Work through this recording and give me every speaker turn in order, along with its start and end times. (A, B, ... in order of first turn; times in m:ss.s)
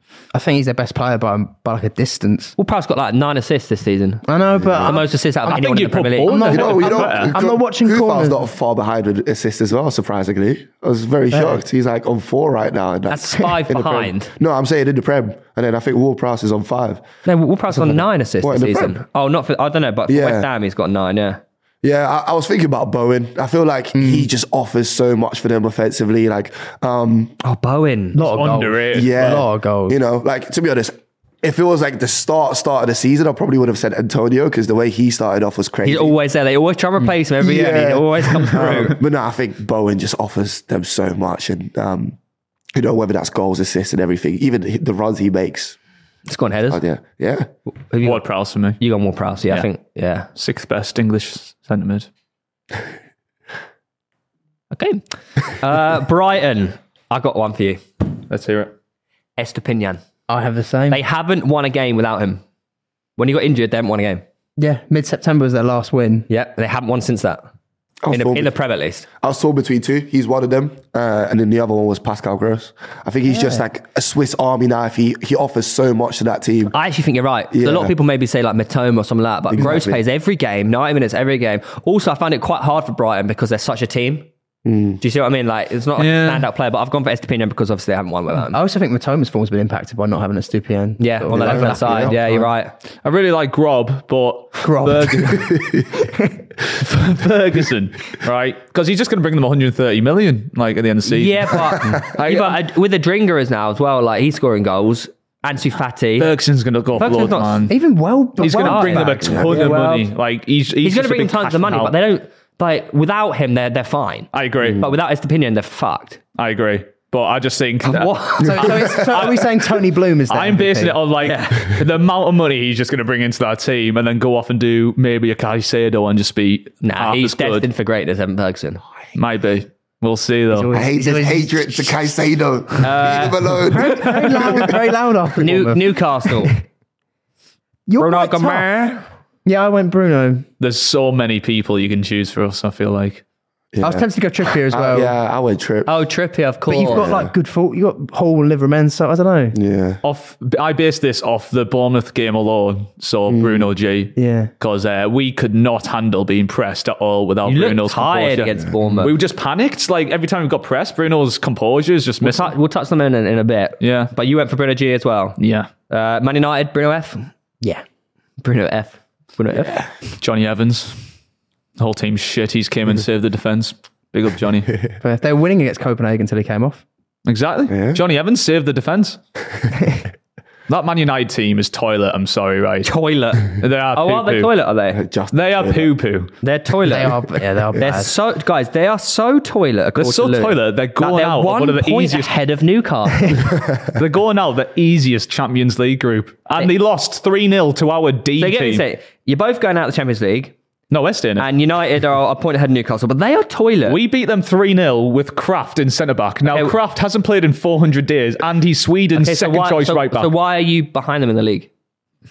0:00.3-0:02.5 A
0:02.6-0:04.3 B
0:04.3-0:05.7 A
0:04.6-0:05.0 C
0:04.8-0:06.5 B
0:05.5-0:07.4 D
0:06.2-0:08.4 A
0:06.5-0:17.0 C
0:11.3-0:11.6 A
0:13.1-0:14.3 B
0:17.2-0:21.4 B
0:17.7-0:19.0 C
0:20.1-0:20.5 C
0:21.8-0:27.4 C
0:24.0-0:24.3 A
0:27.4-0:28.3 B
0:28.1-0:30.0 A
0:28.3-0:29.4 D
0:28.9-0:36.2 C
0:35.8-0:39.0 B
0:37.4-0:42.2 C
0:42.7-0:45.8 C
0:46.3-0:46.8 B
0:46.7-0:47.5 C
0:47.9-0:48.2 B
0:48.0-0:48.8 D
0:48.8-0:50.3 B
0:50.4-0:52.1 D
0:54.7-0:57.8 B
0:58.3-0:58.7 D
0:59.4-1:00.0 B
1:00.3-1:01.0 A
1:00.9-1:02.4 B
1:03.2-1:04.2 B
1:04.6-1:06.3 A
1:06.3-1:07.5 B
1:08.0-1:08.5 C
1:08.1-1:09.1 B
1:09.2-1:16.8 C
1:13.3-1:13.6 A
1:16.7-1:24.3 B
1:17.5-1:17.9 C
1:19.5-1:20.0 C
1:24.6-1:25.0 C
1:25.0-1:28.6 B
1:26.0-1:26.5 D
1:28.5-1:32.5 A
1:31.0-1:32.7 B
1:31.3-1:32.1 C
1:33.0-1:35.7 D
1:34.6-1:36.3 A
1:35.6-1:35.8 C
1:36.7-1:42.6 D
1:41.0-1:46.3 B
1:46.2-1:47.8 D
1:47.0-1:47.7 B
1:47.7-1:49.8 A
1:48.4-1:51.9 D
1:48.5-1:50.1 B
1:49.3-1:49.7 C
1:50.8-1:56.2 B
1:54.3-1:54.8 D
1:56.4-1:59.5 D
1:57.9-1:59.0 B
1:58.4-2:01.0 A
2:00.3-2:07.6 D
2:01.2-2:01.8 B
2:06.8-2:08.8 B
2:09.2-2:10.7 D
2:10.5-2:11.9 A
2:10.7-2:14.7 C
2:12.8-2:13.6 B
2:13.7-2:16.6 A
2:13.8-2:14.6 D
2:15.4-2:16.6 B
2:17.9-2:18.9 A
2:18.0-2:19.0 B
2:19.4-2:20.5 A
2:20.6-2:23.2 D
2:23.7-2:26.0 C
2:23.8-2:25.2 A
2:25.9-2:27.1 B
2:26.7-2:29.6 A
2:26.7-2:27.3 C
2:29.5-2:30.0 C
2:30.0-2:42.5 D
2:33.3-2:33.7 C
2:34.2-2:34.5 A
2:37.5-2:39.2 B
2:42.2-2:45.4 B
2:43.8-2:44.1 D
2:45.4-2:45.7 D
2:45.9-2:47.3 B
2:48.4-2:49.8 B
2:49.6-2:49.9 C
2:50.2-2:51.1 D
2:51.8-2:54.8 D
2:55.0-2:56.8 A
2:57.3-2:59.2 D
2:57.7-2:58.0 C
3:00.7-3:02.9 D
3:02.8-3:05.0 B
3:03.5-3:04.5 D
3:04.9-3:06.0 C
3:05.3-3:06.3 D
3:06.4-3:07.2 B
3:06.8-3:08.1 A
3:07.7-3:13.4 B
3:10.0-3:12.3 D
3:13.9-3:18.8 D
3:18.4-3:20.5 B
3:20.9-3:21.5 D
3:21.4-3:24.0 B
3:23.9-3:30.3 D
3:26.5-3:26.8 B
3:29.2-3:31.7 B